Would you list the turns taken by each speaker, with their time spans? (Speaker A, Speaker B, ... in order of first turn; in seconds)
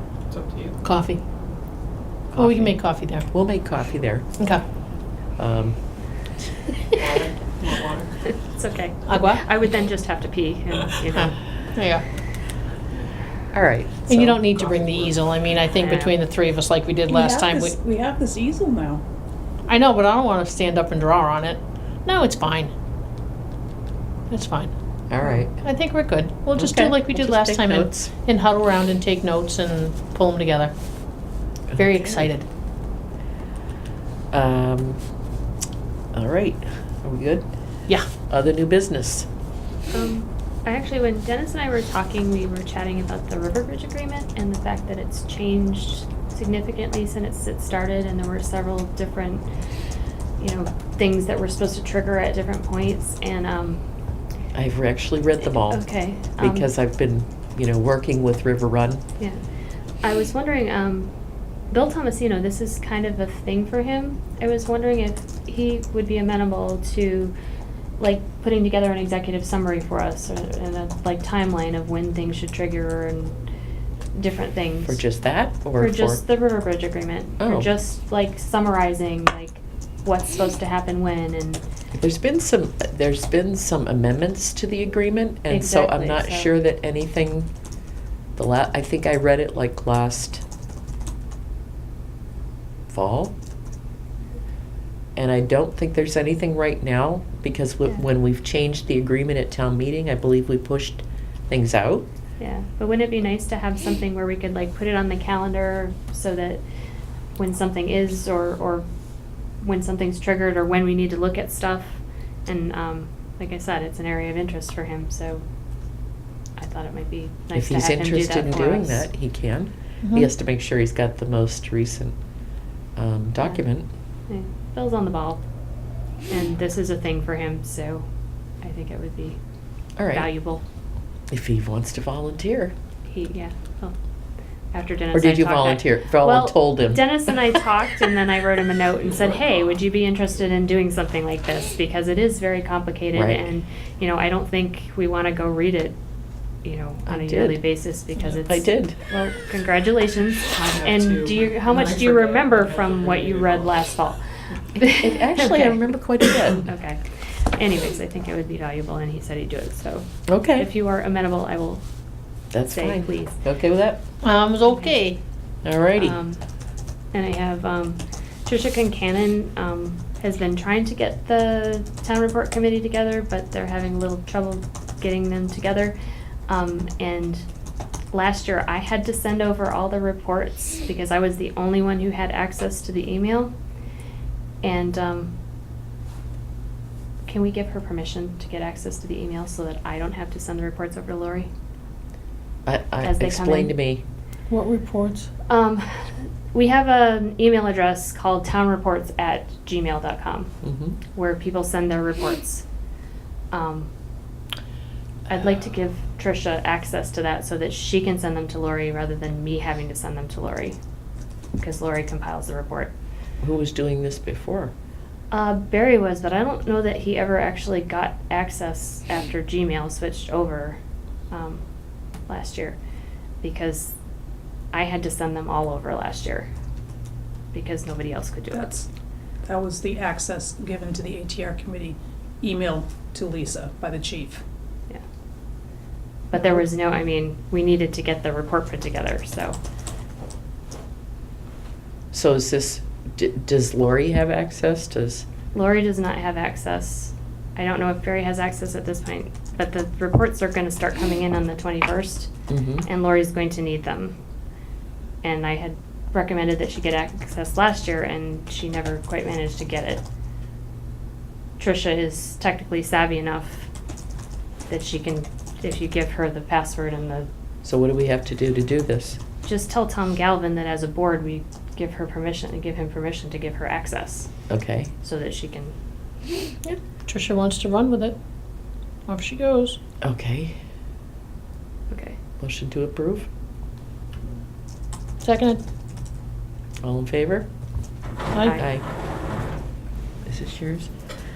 Speaker A: 0.3-0.8, 7.0-8.1, 150.5-153.8
Speaker B: 0.8-1.2, 2.4-3.3, 9.1-9.4, 11.1-12.0, 14.1-17.8, 19.7-22.7, 24.3-24.7, 25.2-30.7, 31.8-32.5, 120.0-120.3, 164.2-165.2, 194.5-195.3, 277.1-278.2, 279.1-279.8, 285.2-285.6, 288.3-288.6
Speaker C: 2.3-4.3, 5.4-5.8, 13.5-14.5, 25.1-25.5, 26.6-28.1, 31.7-32.2, 34.3-35.0, 36.1-37.5, 38.1-39.3, 54.5-55.9, 56.4-59.0, 74.9-76.2, 77.4-77.7, 81.9-87.5, 88.4-90.4, 92.9-93.3, 95.2-102.1, 117.5-122.2, 123.0-123.9, 130.0-130.3, 131.3-132.7, 135.1-137.6, 143.1-143.5, 147.1-147.6, 148.4-149.0, 154.8-156.6, 160.3-160.7, 162.5-164.0, 165.7-166.2, 192.7-194.0, 200.6-201.0, 213.4-214.7, 242.1-245.2, 252.5-252.9, 267.6-269.2, 274.5-274.9, 280.0-280.6, 282.4-283.3, 286.8-287.5, 288.6-288.8, 290.3-290.9
Speaker D: 8.3-11.4, 15.8-16.2, 39.9-49.5, 50.4-53.8, 55.7-56.7, 60.0-61.1, 61.7-67.3, 68.0-73.4, 74.1-75.0, 75.8-81.6, 85.5-86.6, 102.4-106.6, 107.4-108.9, 109.6-115.4, 116.6-119.1, 124.3-125.4, 126.3-128.1, 128.6-129.4, 130.1-130.6, 133.1-133.9, 134.7-146.0, 146.6-161.8, 162.7-163.4, 164.7-165.0, 166.0-166.4, 167.1-176.0, 176.5-177.5, 178.1-183.5, 184.6-185.3, 187.3-191.5, 193.0-193.8, 195.5-200.5, 201.1-202.7, 203.5-203.9, 205.3-210.8, 211.6-212.9, 215.3-220.8, 221.3-221.6, 222.3-222.8, 223.4-223.9, 224.7-226.5, 227.5-228.7, 236.3-239.6, 245.5-252.3, 252.8-254.2, 255.2-260.0, 261.6-263.7, 264.7-267.3, 269.4-274.3, 275.0-275.7, 281.9-282.2, 288.4-288.7
Speaker E: 17.1-19.0, 228.5-228.9, 229.4-234.4